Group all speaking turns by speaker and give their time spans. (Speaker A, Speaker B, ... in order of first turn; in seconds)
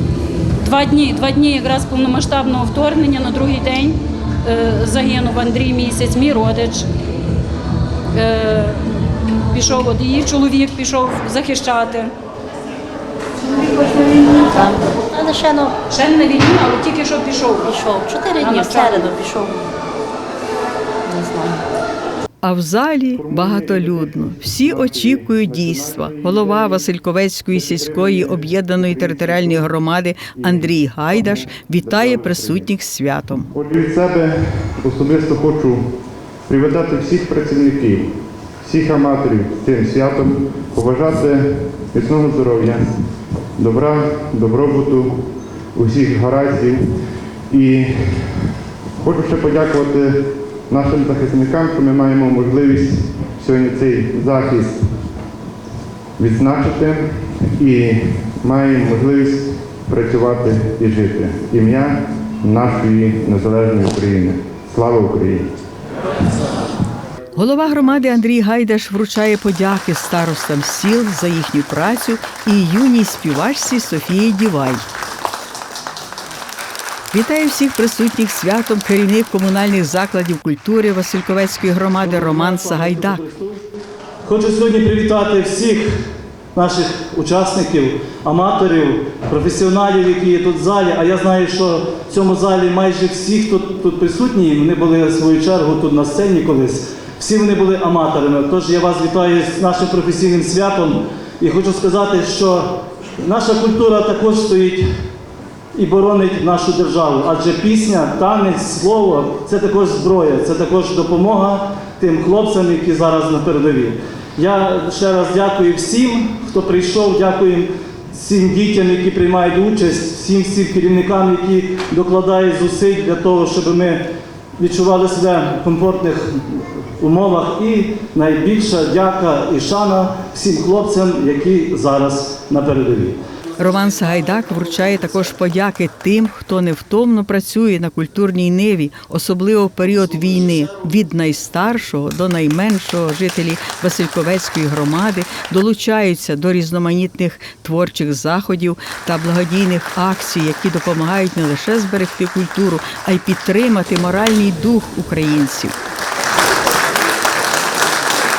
Speaker A: 0.6-6.8, 8.1-8.8, 9.5-12.1, 15.9-17.7, 18.4-19.1
Speaker B: 13.4-15.7, 17.6-19.6, 21.1-21.6
Speaker C: 22.4-33.5, 67.3-74.8, 77.1-83.2, 133.6-155.7
Speaker D: 23.2-26.9, 27.5-29.7, 30.4-32.7, 33.5-35.9, 36.5-42.9, 43.6-46.9, 47.5-54.9, 56.2-65.5
Speaker E: 82.0-83.6, 84.2-86.0, 86.5-104.8, 105.7-124.0, 124.6-133.2